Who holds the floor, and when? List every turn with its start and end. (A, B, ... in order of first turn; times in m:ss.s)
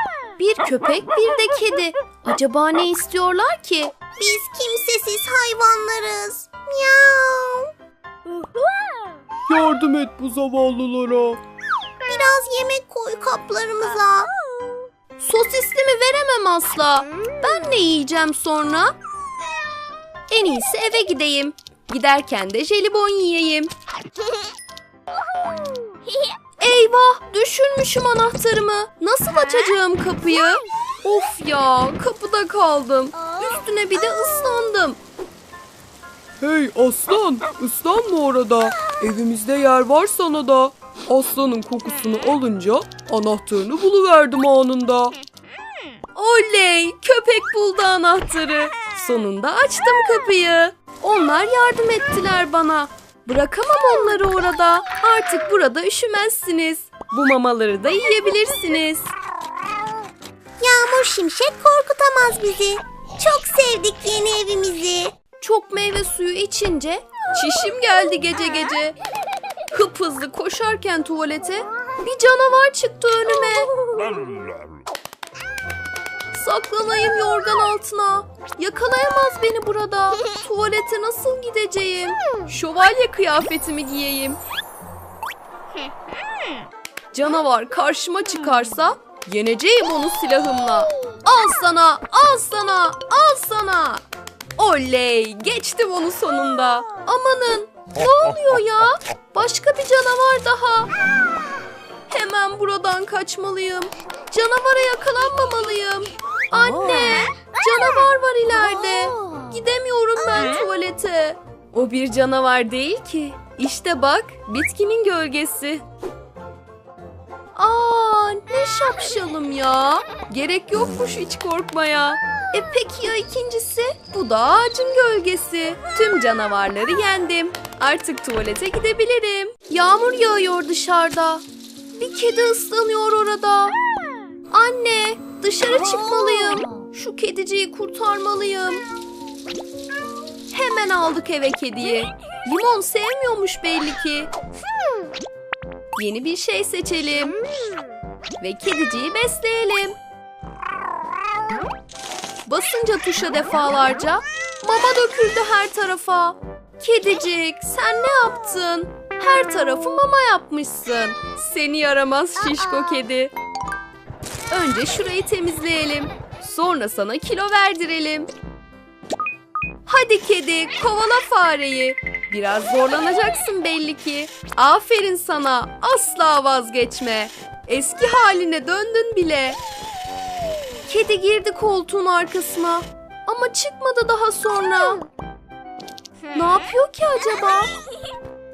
0:00.4-0:03.9 A
0:04.2-0:07.7 B
0:09.5-0:11.4 C
0:12.0-0:14.3 B
0:15.2-0:18.9 A
0:20.3-0:23.7 A
0:26.6-0:35.0 A
0:36.4-0:45.1 C
0:46.1-0:59.1 A
1:00.6-1:05.1 B
1:05.4-1:09.0 A
1:09.7-1:13.7 A
1:16.3-1:24.4 A
1:27.1-1:34.0 A
1:34.6-1:40.9 A
1:42.1-1:55.8 A
1:48.5-1:49.5 B
1:57.5-2:11.4 A
2:12.0-2:13.8 A
2:14.5-2:18.8 A
2:16.4-2:16.8 B
2:20.5-2:24.3 A
2:26.0-2:27.4 A
2:28.4-2:30.0 A
2:32.4-2:43.3 A
2:44.5-2:48.3 A
2:49.8-2:59.6 A
3:00.8-3:05.0 A
3:06.3-3:07.7 A